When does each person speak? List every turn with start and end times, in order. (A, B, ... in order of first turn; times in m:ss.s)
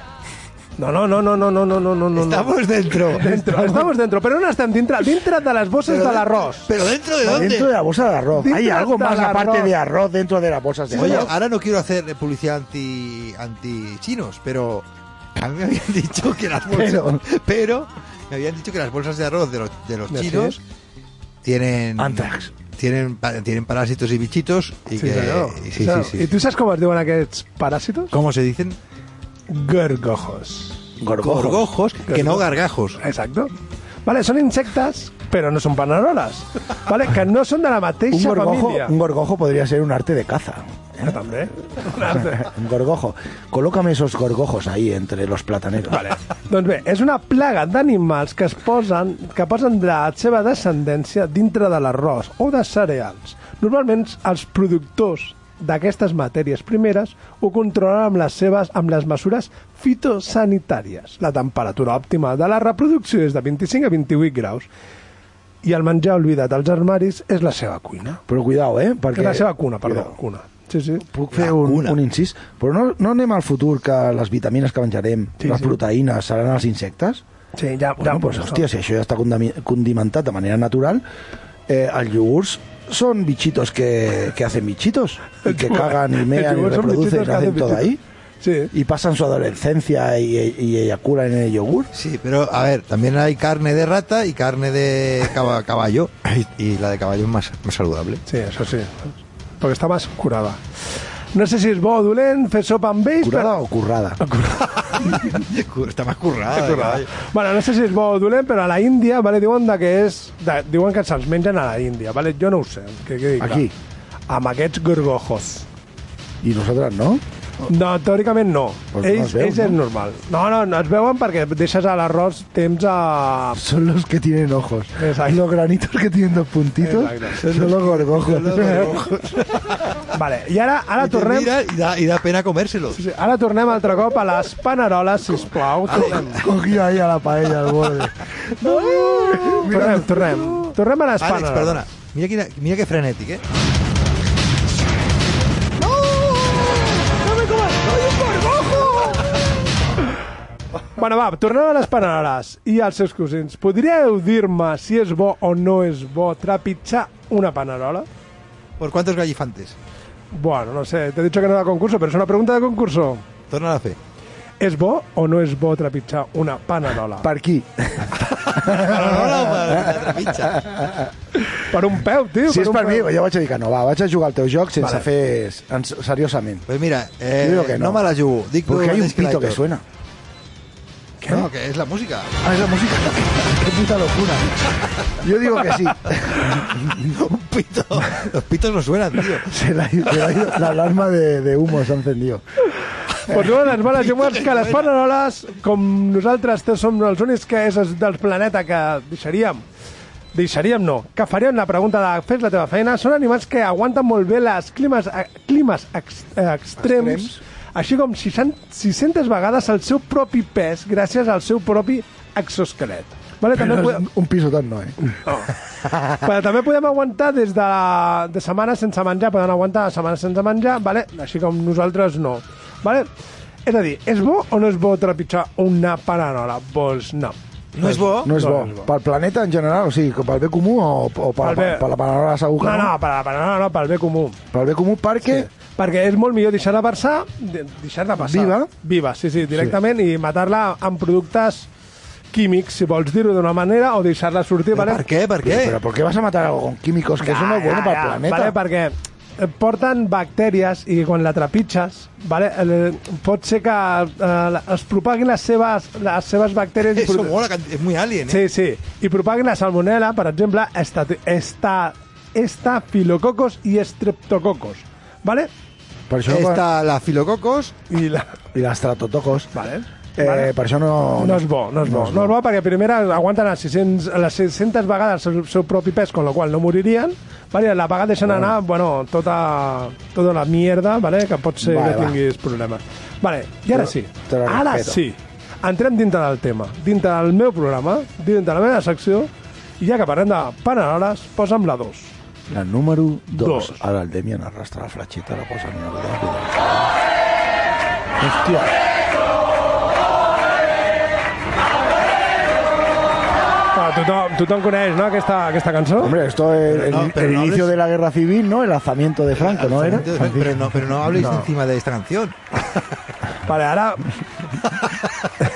0:00.8-0:06.7 A
0:02.2-0:03.9 B
0:05.8-0:07.7 B
0:07.2-0:11.3 C
0:08.3-0:09.7 A
0:10.9-0:11.3 A
0:10.9-0:20.6 B
0:16.7-0:17.2 C
0:20.1-0:20.6 A
0:21.4-0:26.3 B
0:22.0-0:22.5 C
0:25.0-0:28.1 A
0:28.1-0:28.8 B
0:29.5-0:30.8 A
0:31.0-0:31.7 C
0:31.2-0:33.0 B
0:32.1-0:32.5 A
0:33.0-0:33.5 A
0:34.0-0:38.9 A
0:38.1-0:41.3 C
0:41.0-0:42.5 A
0:41.8-0:46.1 C
0:45.9-1:04.7 A
1:05.6-1:08.2 A
1:08.3-1:10.2 C
1:09.1-1:11.0 A
1:11.0-1:17.2 C
1:11.3-1:12.0 B
1:15.4-1:15.7 A
1:17.6-1:18.7 A
1:18.0-1:21.0 C
1:21.7-1:28.0 C
1:25.4-1:27.9 A
1:28.4-1:28.7 A
1:28.7-1:31.9 C
1:31.9-1:38.2 B
1:38.3-1:40.6 A
1:41.3-1:43.5 A
1:43.2-1:44.2 C
1:44.2-1:45.3 A
1:44.9-1:47.1 B
1:46.5-1:53.7 A
1:53.4-1:53.7 C
1:54.3-1:55.7 A
1:56.4-1:57.2 C
1:57.7-2:03.6 A
1:58.9-1:59.8 C
2:03.6-2:09.2 C
2:05.0-2:05.4 A
2:06.8-2:07.5 A
2:07.4-2:10.0 B
2:10.1-2:11.5 A
2:11.0-2:13.0 B
2:12.9-2:16.4 A
2:15.9-2:16.5 B
2:16.2-2:20.5 C
2:18.6-2:21.9 A
2:18.9-2:19.6 B
2:21.2-2:23.4 B
2:27.5-2:27.8 A
2:28.4-2:28.9 A
2:31.0-2:38.1 A
2:38.8-2:39.8 B
2:40.3-2:43.2 A
2:43.5-2:44.0 B
2:44.6-2:47.3 A
2:47.2-2:51.4 C
2:48.3-2:50.7 B
2:51.7-2:53.1 A
2:52.5-2:56.7 C
2:54.8-2:55.1 A
2:56.7-2:59.6 B
2:57.4-2:58.1 C
2:58.7-2:59.8 C
3:01.3-3:02.3 B
3:02.4-3:07.1 C
3:06.5-3:09.5 B
3:09.3-3:12.4 C
3:13.2-3:19.6 A
3:13.7-3:14.9 B
3:20.3-3:34.1 A
3:26.8-3:27.4 C
3:33.5-3:35.0 C
3:35.2-3:35.6 A
3:36.1-3:43.1 A
3:43.7-3:48.9 A
3:47.8-3:48.3 B
3:47.9-3:52.9 C
3:51.4-3:51.8 A
3:52.6-3:54.4 A
3:54.5-3:55.5 C
3:55.2-4:01.7 A
3:58.2-3:58.7 C
4:02.3-4:05.0 A
4:04.7-4:05.8 B
4:05.4-4:08.6 C
4:07.2-4:17.4 A
4:16.9-4:18.5 B
4:18.3-4:25.5 A
4:26.1-4:26.6 C
4:26.2-4:27.8 B
4:27.9-4:28.3 A
4:28.5-4:29.5 C
4:29.5-4:30.5 A
4:30.2-4:32.3 C
4:31.2-4:52.1 A
4:38.2-4:38.5 C
4:41.6-4:42.2 C
4:43.7-4:45.0 C
4:52.5-4:56.7 C
4:53.3-4:53.8 A
4:58.2-4:58.7 C
5:03.7-5:06.2 A
5:06.0-5:11.2 C
5:06.7-5:07.7 B
5:09.4-5:12.8 B
5:13.5-5:14.1 A
5:14.6-5:15.3 B